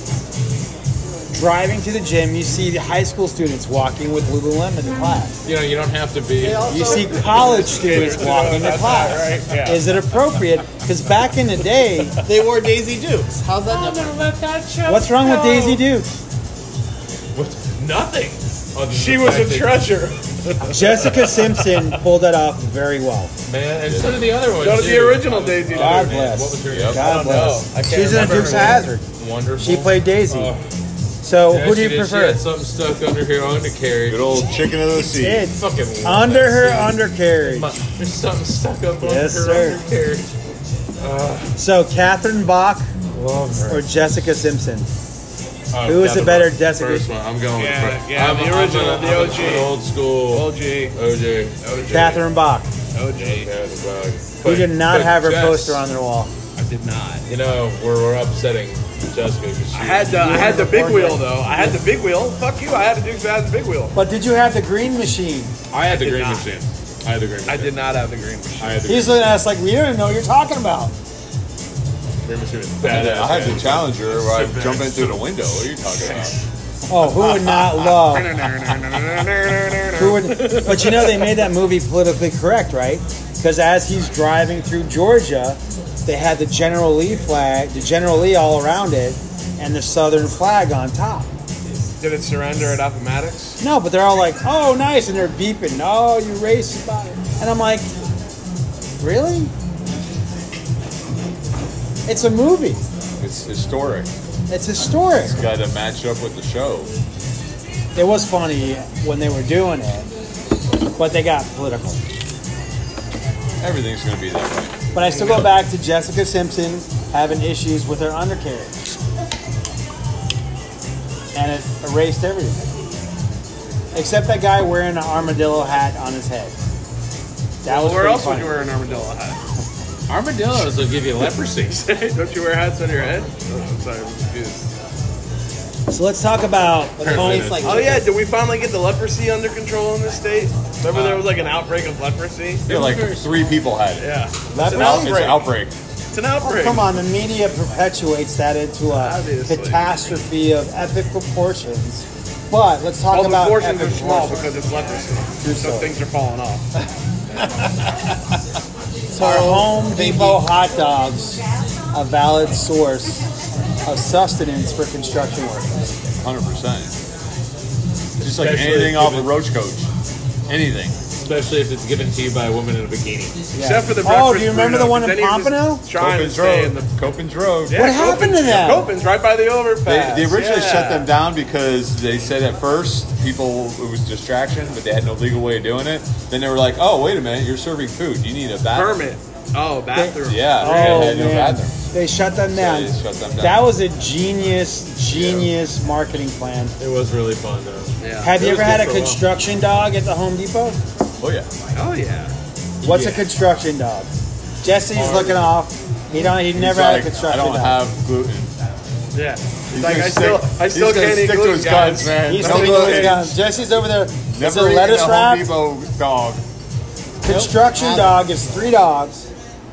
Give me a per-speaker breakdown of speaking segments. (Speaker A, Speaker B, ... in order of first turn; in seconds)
Speaker A: 1.3-5.3, 6.7-12.2, 14.8-16.1, 20.7-23.3, 25.7-29.0, 29.6-30.5, 31.2-32.4, 35.0-37.7, 39.0-39.8, 41.5-42.9, 43.7-44.9, 45.8-47.0, 51.9-52.7, 54.4-56.3, 60.1-61.8, 63.9-65.5, 68.8-70.9, 76.9-78.3, 79.9-91.3, 93.6-97.9, 99.0-99.5, 102.0-102.8, 104.5-105.4, 107.9-110.1, 111.0-112.0, 114.9-118.8, 121.3-122.6, 123.9-126.5, 127.6-128.6, 135.9-137.7, 144.5-145.4, 146.4-154.4, 155.4-155.9, 159.2-161.4, 161.9-163.2, 163.8-166.0, 173.5-175.8, 177.7-178.9, 189.9-196.7, 198.2-200.8, 202.8-204.1, 204.6-207.8, 212.3-215.5, 217.2-219.3
Speaker B: 5.4-7.1, 7.9-8.2, 13.7-15.8, 17.3-19.9, 23.4-27.2, 28.1-30.6, 31.5-40.3, 41.0-41.5, 43.1-43.8, 45.7-52.2, 53.1-55.8, 57.3-60.5, 65.7-67.8, 68.6-69.3, 72.2-75.2, 130.1-131.8, 137.0-138.0, 140.9-141.2, 142.7-143.3, 168.2-169.3, 171.2-173.4, 196.8-199.1
Speaker C: 6.4-7.9, 12.2-14.2, 137.0-138.0, 159.1-160.5, 217.2-218.2
Speaker D: 6.6-9.8, 18.9-21.6, 24.5-26.1, 26.9-28.9, 47.5-49.7, 50.3-50.9, 51.6-52.2, 52.9-53.5, 56.6-57.2, 59.7-64.0, 65.9-66.5, 67.5-68.8, 78.0-81.4, 92.0-93.5, 127.6-129.4, 131.8-134.7, 137.6-142.6, 144.0-145.5, 146.1-146.9, 148.9-149.8, 153.1-156.7, 173.6-176.9, 177.7-181.1, 188.7-191.2, 198.0-199.1, 201.7-202.3, 204.9-205.3, 209.1-213.2
Speaker E: 23.9-24.3, 26.7-27.0, 34.1-35.5, 72.8-76.3, 103.2-104.1, 105.2-106.9, 113.6-114.9, 142.7-144.1, 144.6-145.7, 166.2-166.9, 168.2-169.9, 170.5-170.9, 175.9-177.9, 179.8-189.0, 190.2-191.8, 192.5-193.6, 195.1-195.5, 201.2-201.5, 206.5-208.5, 209.7-213.3, 214.2-216.4